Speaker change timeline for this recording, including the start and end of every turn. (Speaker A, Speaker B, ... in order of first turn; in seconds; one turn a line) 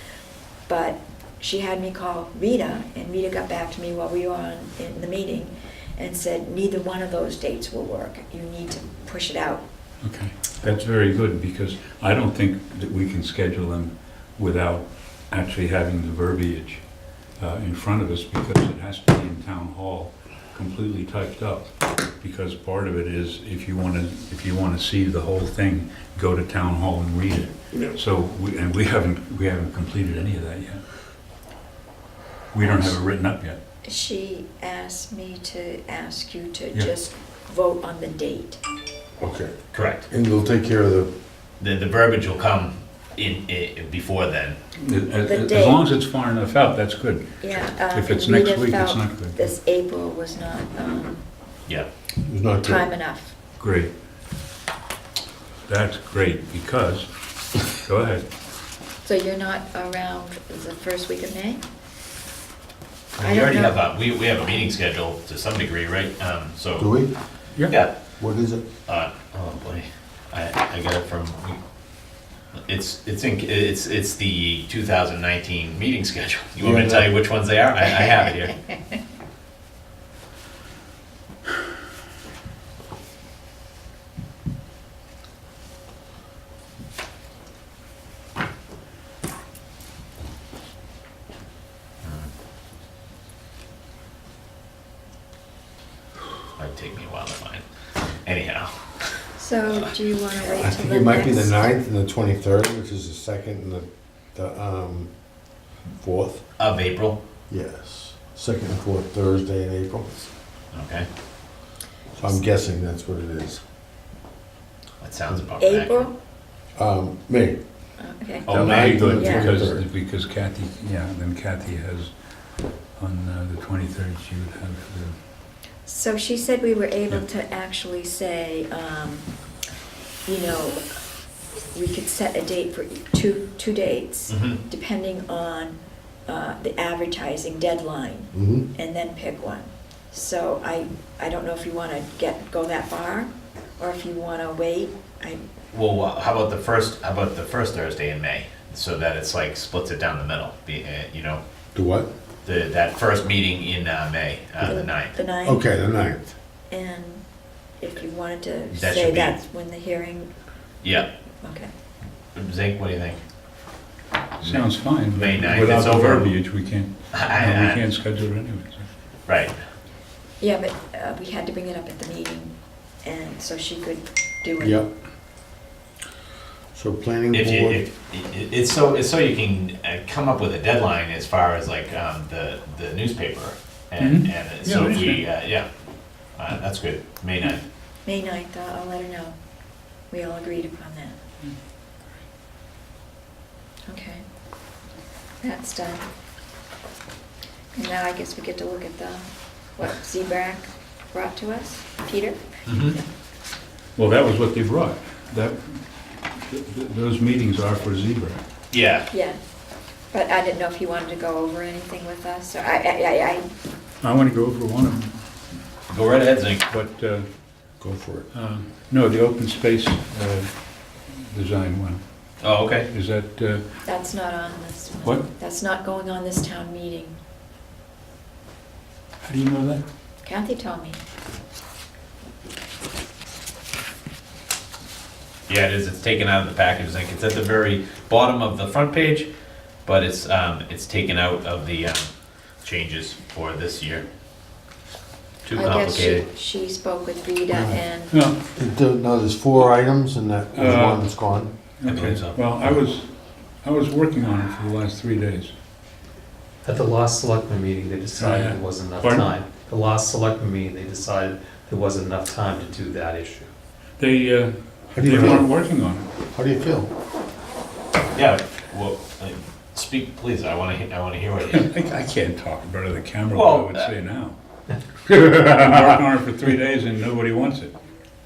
Speaker A: 0.7-9.6
Speaker B: 10.0-30.8
Speaker B: 32.5-33.6
Speaker A: 33.8-38.6
Speaker C: 39.2-39.6
Speaker D: 39.7-40.1
Speaker C: 40.1-41.1
Speaker D: 41.6-44.6
Speaker B: 44.8-47.4
Speaker A: 45.2-45.8
Speaker A: 47.4-51.2
Speaker B: 47.9-49.4
Speaker C: 52.2-52.8
Speaker A: 52.6-53.4
Speaker B: 53.6-53.9
Speaker B: 55.7-57.1
Speaker B: 57.6-58.2
Speaker A: 59.0-61.6
Speaker D: 63.2-66.9
Speaker A: 63.2-63.8
Speaker C: 66.8-67.1
Speaker D: 67.7-67.9
Speaker C: 68.2-68.6
Speaker D: 68.9-71.6
Speaker D: 72.5-78.5
Speaker C: 76.6-77.1
Speaker D: 92.0-92.3
Speaker D: 96.5-97.6
Speaker D: 98.2-99.3
Speaker A: 99.4-101.6
Speaker C: 100.6-105.1
Speaker C: 106.0-106.4
Speaker D: 106.6-107.2
Speaker C: 107.5-110.1
Speaker D: 110.7-111.1
Speaker C: 112.2-113.6
Speaker D: 115.0-116.1
Speaker A: 115.6-116.2
Speaker C: 116.8-117.6
Speaker A: 118.0-119.6
Speaker B: 118.4-122.1
Speaker C: 118.5-119.8
Speaker D: 118.5-119.0
Speaker B: 123.0-125.2
Speaker A: 125.8-129.3
Speaker A: 130.2-130.8
Speaker A: 131.7-145.4
Speaker D: 134.3-134.6
Speaker C: 138.3-138.7
Speaker D: 145.7-151.4
Speaker C: 151.8-152.1
Speaker D: 152.4-155.2
Speaker A: 154.6-155.7
Speaker C: 155.4-156.3
Speaker A: 156.7-157.2
Speaker A: 157.8-160.3
Speaker D: 158.7-159.4
Speaker D: 160.8-161.1
Speaker A: 161.4-161.7
Speaker D: 162.3-163.2
Speaker B: 164.4-168.9
Speaker D: 164.4-166.3
Speaker D: 167.1-167.8
Speaker D: 169.3-169.5
Speaker A: 170.4-174.8
Speaker C: 174.6-174.9
Speaker C: 176.7-177.8
Speaker D: 177.3-185.7
Speaker B: 184.0-185.2
Speaker D: 186.3-187.6
Speaker A: 188.1-189.3
Speaker A: 190.1-191.2
Speaker A: 193.9-194.2
Speaker A: 195.4-196.1
Speaker A: 197.8-203.0
Speaker D: 202.7-203.0
Speaker B: 204.0-208.4
Speaker D: 208.7-209.1
Speaker A: 209.1-209.4
Speaker A: 210.1-213.5
Speaker B: 214.0-215.2
Speaker D: 215.9-216.7
Speaker B: 216.7-217.3
Speaker C: 217.8-218.3
Speaker B: 218.3-222.0
Speaker D: 222.4-222.9
Speaker B: 222.9-223.6
Speaker A: 223.8-227.2
Speaker B: 229.2-229.8
Speaker A: 230.2-231.0
Speaker D: 235.5-239.3
Speaker D: 239.8-242.1
Speaker D: 242.6-244.0
Speaker D: 245.4-246.3
Speaker A: 245.5-248.2
Speaker C: 247.5-247.8
Speaker B: 248.1-248.4
Speaker C: 248.4-251.5
Speaker B: 250.5-251.2
Speaker B: 251.8-255.5
Speaker D: 251.8-252.4
Speaker E: 256.6-263.5
Speaker B: 258.2-259.3
Speaker B: 264.0-266.1
Speaker C: 264.9-265.5
Speaker C: 266.3-266.9
Speaker D: 268.1-271.7
Speaker B: 271.5-274.4
Speaker D: 273.3-273.9
Speaker B: 275.1-277.7